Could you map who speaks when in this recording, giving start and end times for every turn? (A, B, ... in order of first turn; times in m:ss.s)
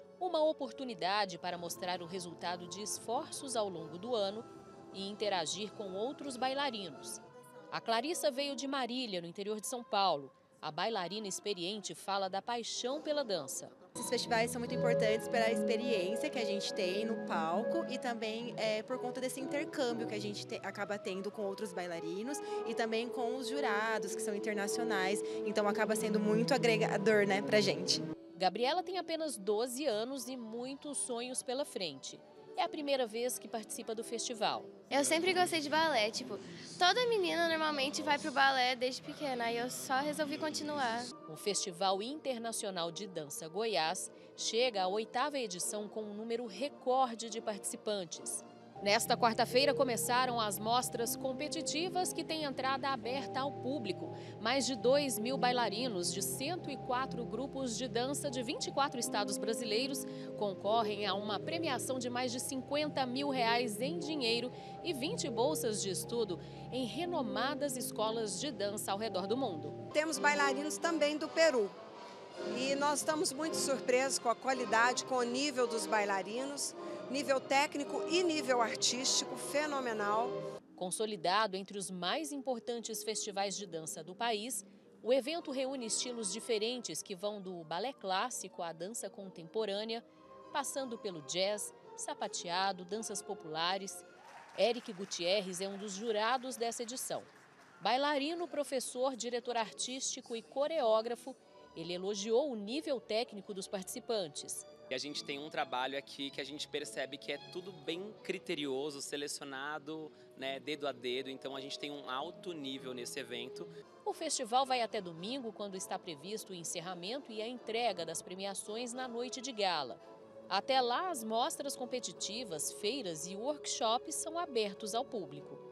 0:00.2-0:13.7 A
0:14.0-0:28.0 B
0:28.4-0:34.7 A
0:34.9-0:41.1 C
0:41.3-1:09.8 A
1:09.9-1:11.8 D
1:12.5-1:20.4 D
1:20.8-1:37.3 A
1:37.8-1:44.6 A
1:44.9-1:53.7 E
1:54.0-2:05.6 A